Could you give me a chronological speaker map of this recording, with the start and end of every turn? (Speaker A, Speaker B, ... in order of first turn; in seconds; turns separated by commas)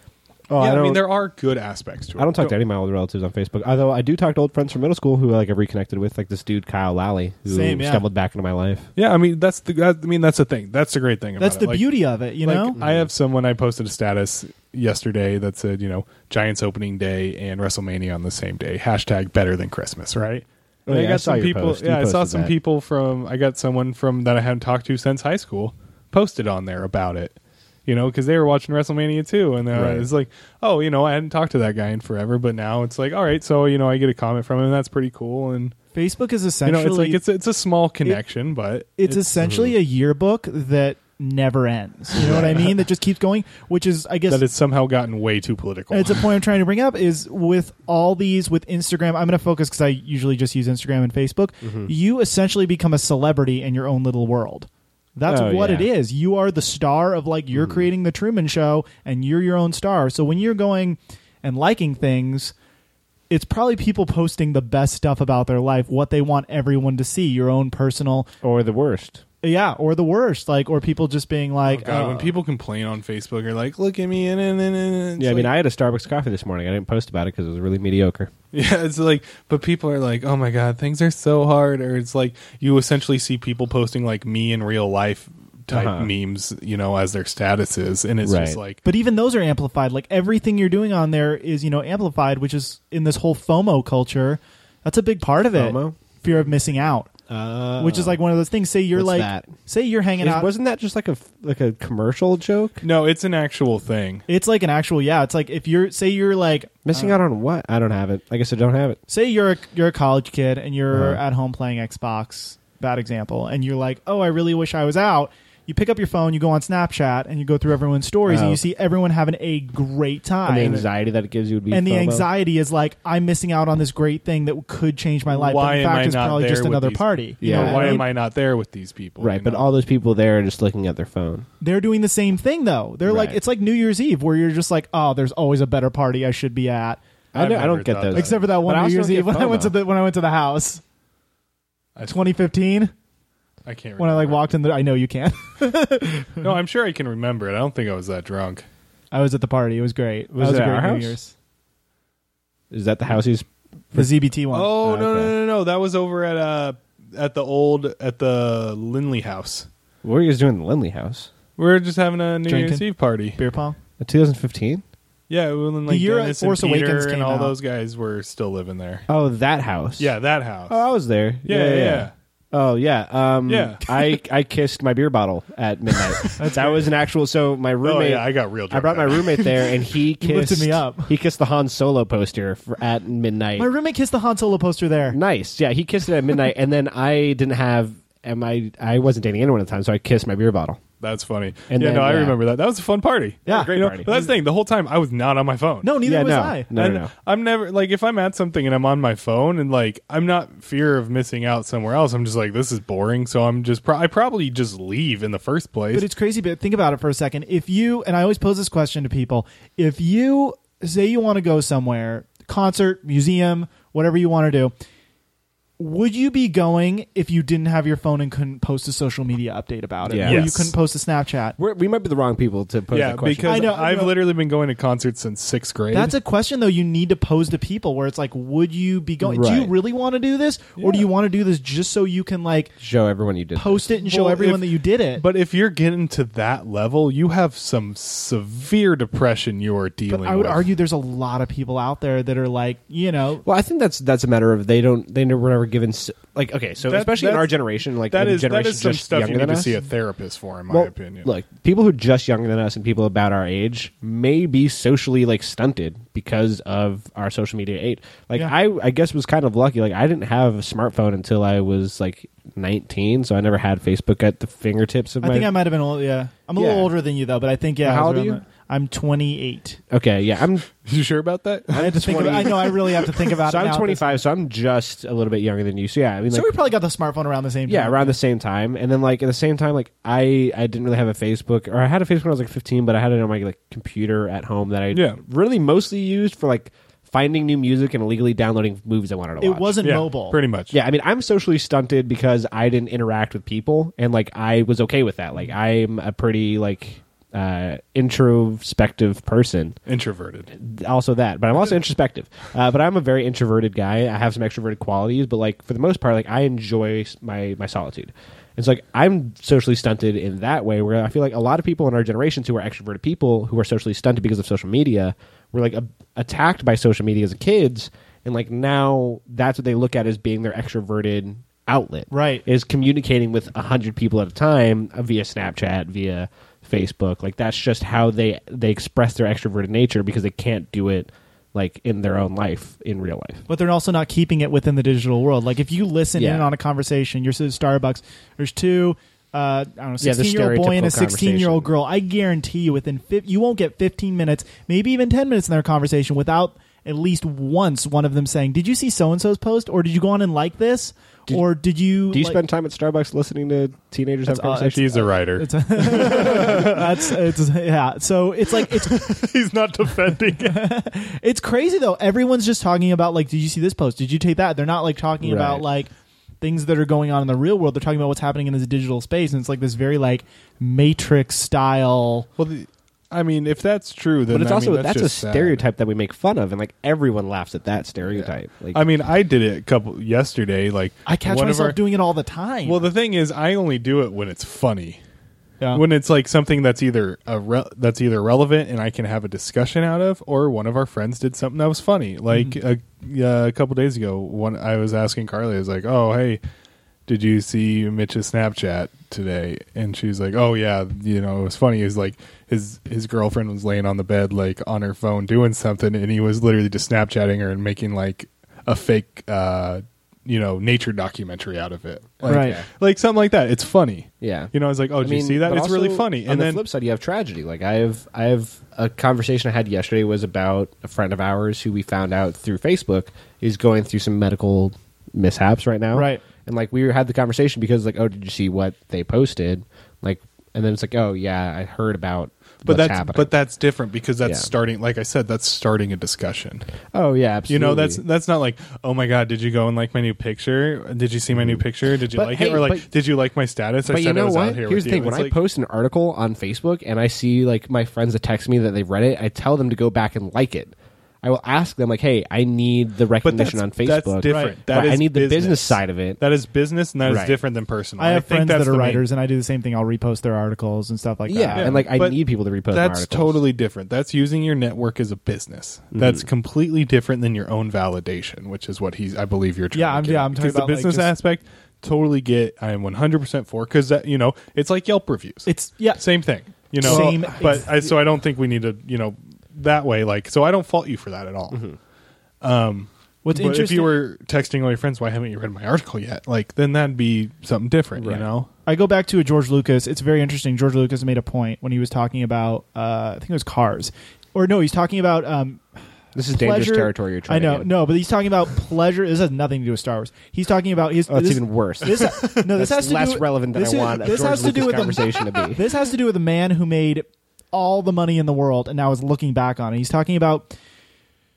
Speaker A: 0.5-1.1, Speaker B: 0.6-2.5, Speaker A: 2.2-8.9, Speaker C: 7.5-8.0, Speaker B: 8.9-11.9, Speaker C: 11.4-12.8, Speaker B: 12.4-35.8, Speaker A: 12.8-13.1, Speaker A: 20.9-22.5, Speaker A: 29.7-30.1, Speaker C: 35.9-37.2, Speaker B: 36.6-39.3, Speaker C: 39.0-44.4, Speaker A: 39.4-39.7, Speaker A: 42.2-42.6, Speaker B: 42.2-42.6, Speaker B: 44.3-46.3, Speaker C: 45.9-62.5, Speaker A: 51.6-51.9, Speaker A: 55.3-55.9, Speaker A: 57.5-57.9, Speaker C: 63.3-68.3, Speaker A: 68.4-69.2, Speaker C: 69.4-72.3, Speaker B: 71.7-75.5, Speaker A: 75.2-78.3, Speaker B: 78.5-88.8, Speaker A: 85.7-86.1, Speaker A: 88.2-88.6, Speaker C: 88.8-97.1, Speaker A: 95.5-96.0, Speaker A: 97.3-98.2, Speaker C: 97.8-100.5, Speaker A: 98.9-99.5, Speaker A: 100.2-102.8, Speaker B: 102.8-104.2, Speaker C: 104.3-107.2, Speaker A: 106.9-109.0, Speaker C: 109.1-120.8, Speaker A: 110.9-111.2, Speaker A: 118.3-118.6, Speaker A: 120.5-122.3, Speaker C: 121.7-128.1, Speaker B: 125.3-129.7, Speaker A: 127.4-128.1, Speaker A: 129.2-131.5, Speaker C: 131.6-137.0, Speaker A: 133.1-133.4, Speaker A: 137.3-139.8, Speaker B: 137.3-138.4, Speaker C: 138.1-140.8, Speaker C: 142.1-142.9, Speaker B: 143.6-144.4, Speaker C: 144.0-146.5, Speaker B: 146.4-148.6, Speaker C: 149.1-151.3, Speaker A: 150.3-151.2, Speaker A: 152.7-154.1, Speaker C: 153.9-154.7, Speaker B: 154.5-159.7, Speaker A: 154.8-155.3, Speaker A: 160.0-161.3, Speaker B: 161.6-163.4, Speaker C: 162.4-163.8, Speaker A: 164.0-164.8, Speaker B: 165.3-169.1, Speaker C: 165.9-167.5, Speaker A: 169.1-170.1, Speaker B: 170.0-170.8, Speaker A: 170.7-183.7, Speaker B: 171.4-172.1, Speaker B: 173.5-174.2, Speaker B: 175.9-176.6, Speaker C: 176.4-176.9, Speaker B: 177.8-179.7, Speaker C: 180.2-181.1, Speaker C: 183.6-185.2, Speaker A: 185.1-190.8, Speaker B: 191.0-195.9, Speaker A: 191.7-192.4, Speaker A: 193.4-194.1, Speaker C: 193.4-194.3, Speaker C: 195.8-196.7, Speaker A: 196.0-197.1, Speaker B: 196.8-206.1, Speaker C: 205.9-214.7, Speaker C: 215.8-221.6, Speaker A: 220.1-220.5, Speaker B: 220.2-220.7, Speaker A: 221.6-223.7, Speaker B: 222.9-226.2, Speaker C: 223.4-224.2, Speaker C: 225.9-232.7, Speaker A: 229.2-229.7, Speaker B: 230.8-231.1, Speaker A: 232.8-233.9, Speaker C: 233.6-235.2, Speaker B: 234.0-240.7, Speaker C: 240.1-243.4, Speaker A: 243.4-249.8, Speaker B: 246.8-251.3, Speaker A: 250.7-265.5, Speaker C: 265.2-269.8, Speaker A: 266.6-266.9, Speaker A: 267.8-268.4, Speaker A: 269.9-270.7, Speaker B: 270.8-272.8, Speaker A: 271.7-276.5, Speaker C: 271.8-274.2, Speaker C: 276.3-278.2, Speaker A: 277.7-289.8, Speaker B: 284.9-285.2, Speaker C: 289.4-290.4, Speaker B: 289.8-290.7, Speaker A: 290.7-299.8, Speaker B: 299.9-300.5, Speaker A: 300.5-333.4, Speaker C: 322.1-322.4, Speaker C: 333.5-352.4, Speaker A: 336.1-336.5, Speaker A: 340.0-341.7, Speaker A: 352.1-355.1, Speaker C: 354.3-359.1, Speaker B: 354.7-357.3, Speaker B: 358.6-360.7, Speaker C: 360.4-365.9, Speaker A: 365.2-365.6, Speaker C: 366.4-372.3, Speaker B: 372.4-375.6, Speaker A: 374.3-378.8, Speaker B: 378.1-381.8, Speaker C: 381.1-382.9, Speaker B: 382.6-385.0, Speaker B: 385.7-396.4, Speaker B: 397.1-416.6, Speaker A: 412.2-412.6, Speaker C: 412.3-412.6, Speaker A: 414.2-433.3, Speaker C: 425.9-426.2, Speaker B: 432.6-436.7, Speaker A: 436.9-438.0, Speaker B: 437.5-445.4, Speaker A: 441.3-442.9, Speaker A: 443.9-456.2, Speaker B: 453.2-459.0, Speaker C: 454.2-454.6, Speaker A: 457.1-457.4, Speaker C: 458.0-461.8, Speaker A: 461.3-463.4, Speaker B: 461.6-481.6, Speaker A: 465.9-466.2, Speaker C: 469.7-471.1, Speaker C: 475.4-476.1, Speaker C: 476.8-477.9, Speaker A: 476.9-477.1, Speaker A: 481.5-481.8, Speaker B: 482.4-488.5, Speaker C: 483.2-484.0, Speaker A: 487.9-488.3, Speaker C: 488.7-495.6, Speaker A: 496.1-497.7, Speaker C: 496.3-510.5, Speaker A: 501.1-505.6